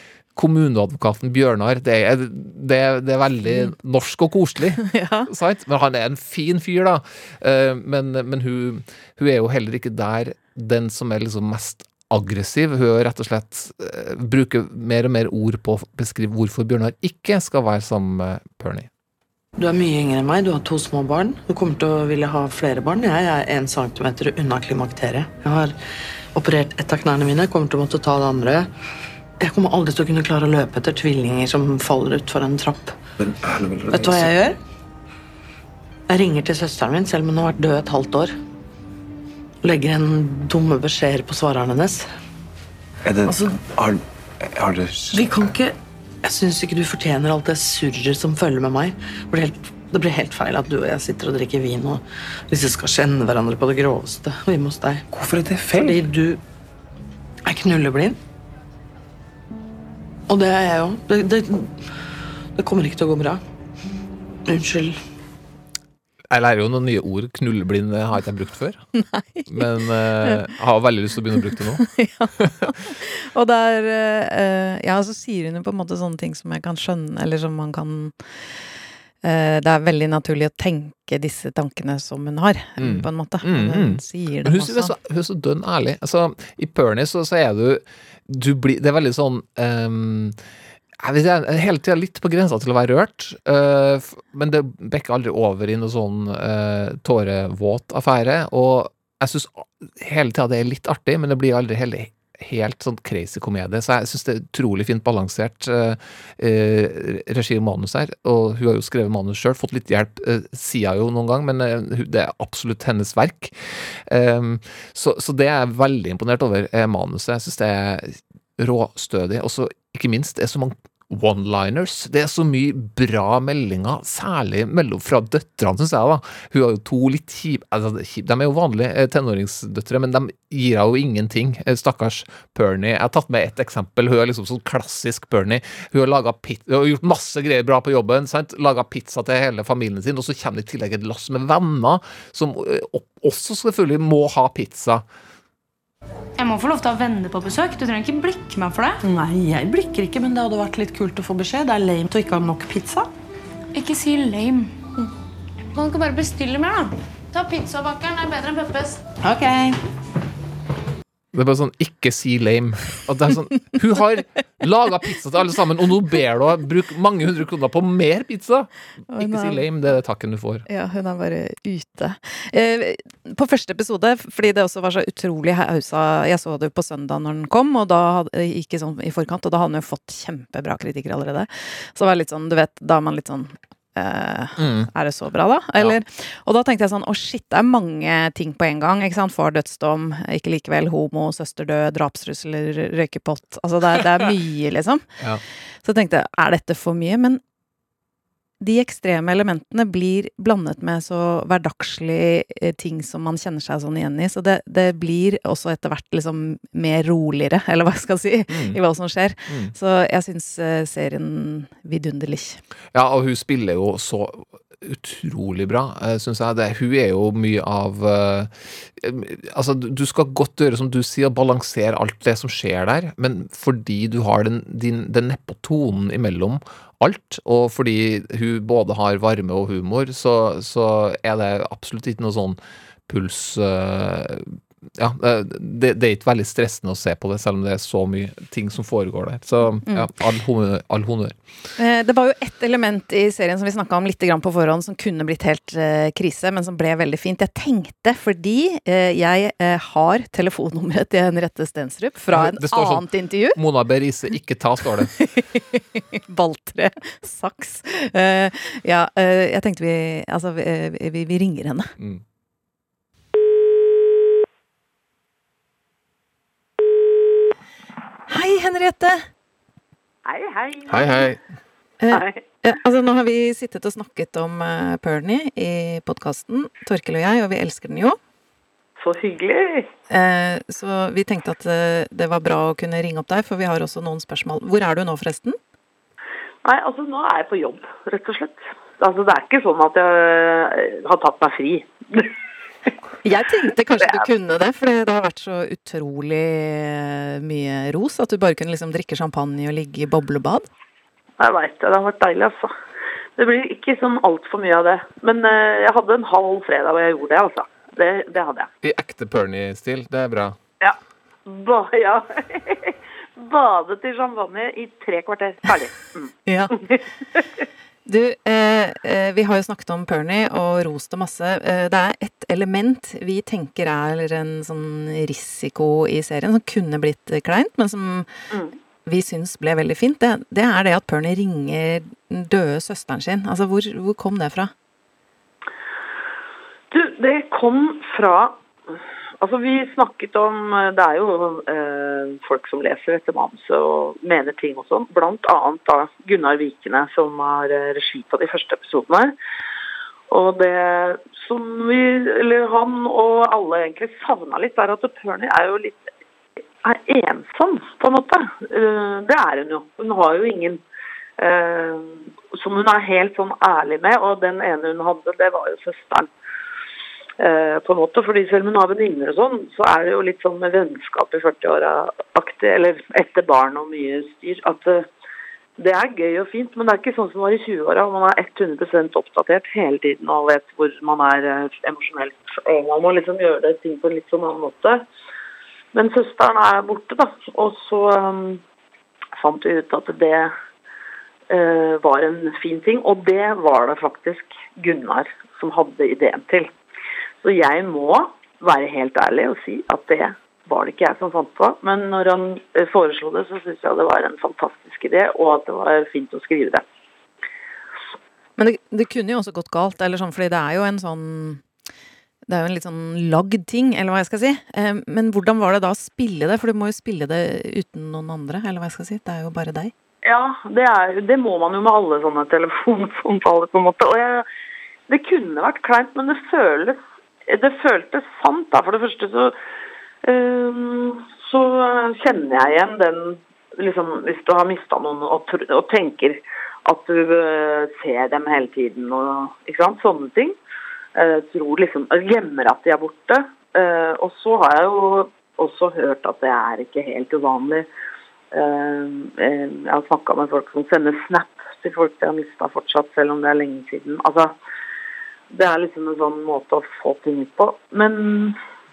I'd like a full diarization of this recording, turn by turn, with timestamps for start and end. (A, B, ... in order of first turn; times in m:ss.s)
0:00.4-0:18.9 A
0:04.8-0:05.3 B
0:19.6-0:25.8 C
0:26.4-0:28.7 C
0:29.4-0:33.0 C
0:33.2-0:34.4 D
0:33.9-0:34.6 C
0:36.1-0:38.3 C
0:39.6-0:42.1 C
0:43.0-0:45.5 D
0:43.3-0:43.6 C
0:45.1-0:55.1 C
0:55.1-0:56.1 D
0:55.6-0:56.4 C
0:57.4-0:58.2 C
1:00.3-1:01.8 C
1:02.6-1:03.4 C
1:04.5-1:05.0 C
1:06.3-1:08.8 A
1:09.0-1:09.6 B
1:09.5-1:12.7 A
1:11.5-1:18.1 B
1:19.2-1:24.9 B
1:22.8-1:30.4 A
1:31.0-2:25.0 A
2:26.4-2:29.0 E
2:29.0-2:33.1 C
2:33.7-2:34.8 E
2:35.7-2:39.0 E
2:39.2-2:39.8 C
2:41.3-2:50.6 A
2:49.1-2:49.7 B
2:50.7-3:15.0 B
3:04.6-3:04.9 A
3:15.8-3:17.4 B
3:18.6-3:32.6 B
3:28.5-3:28.8 A
3:29.5-3:29.7 A
3:32.9-4:01.4 A
4:01.8-4:13.6 B
4:12.3-4:15.1 A
4:15.2-4:21.9 B
4:28.3-4:29.3 B
4:30.3-4:31.3 F
4:30.9-4:31.4 A
4:32.0-4:38.2 B
4:32.1-4:32.4 F
4:39.0-4:39.9 F
4:40.1-4:45.6 B
4:46.6-4:52.3 F
4:53.2-5:00.7 B
5:01.4-5:02.7 F
5:03.4-5:08.7 F
5:08.8-5:10.6 A
5:10.8-5:17.6 F
5:16.5-5:16.8 B
5:18.1-5:28.3 B
5:29.1-5:34.7 B
5:36.9-5:38.6 F
5:39.4-5:49.4 F
5:50.3-5:56.1 F
5:56.8-6:00.8 F
6:01.4-6:06.3 F
6:07.4-6:15.1 F
6:15.8-6:25.0 F
6:25.9-6:28.6 F
6:29.4-6:30.5 F
6:31.5-6:36.7 F
6:37.4-6:46.8 F
6:48.6-6:51.6 B
6:52.5-6:59.9 B
7:00.2-7:04.5 F
7:05.1-7:09.6 F
7:10.2-7:20.6 F
7:21.2-7:27.9 F
7:28.5-7:34.5 F
7:35.5-7:38.6 F